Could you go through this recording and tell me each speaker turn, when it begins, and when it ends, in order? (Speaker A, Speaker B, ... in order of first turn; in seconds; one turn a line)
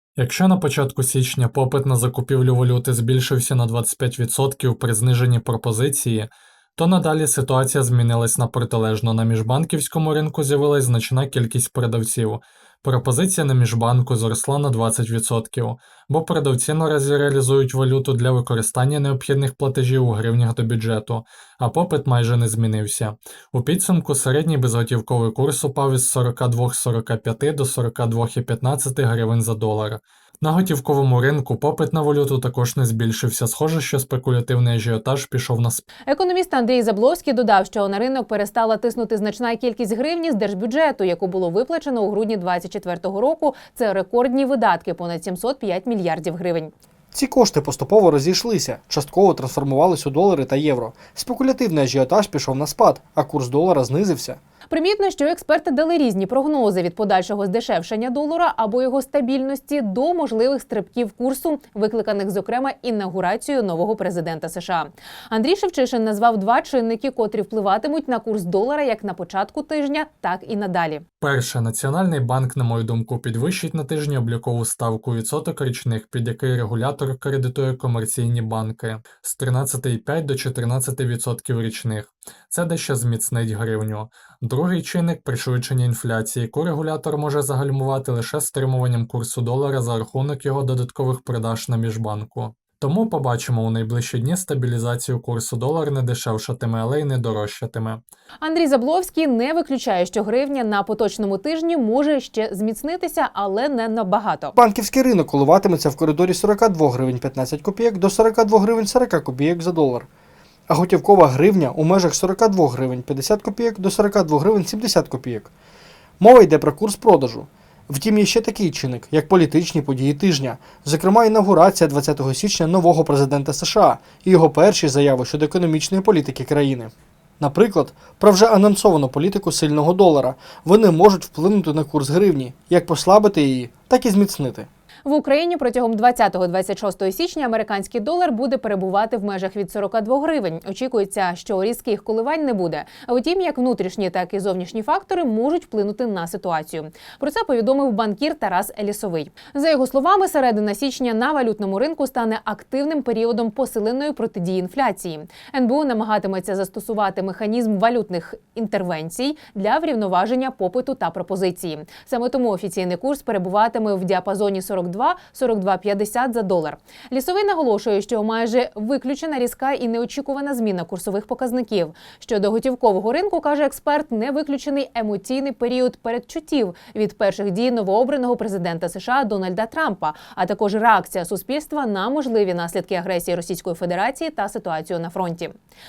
Speaker A: 0.2-35.9
Speaker B: 36.1-46.7
Speaker C: 47.1-54.4
Speaker B: 54.7-71.0
Speaker A: 71.2-98.0
Speaker B: 98.4-104.6
Speaker C: 104.6-110.1
Speaker C: 110.7-115.5
Speaker C: 116.2-134.7
Speaker B: 135.1-185.5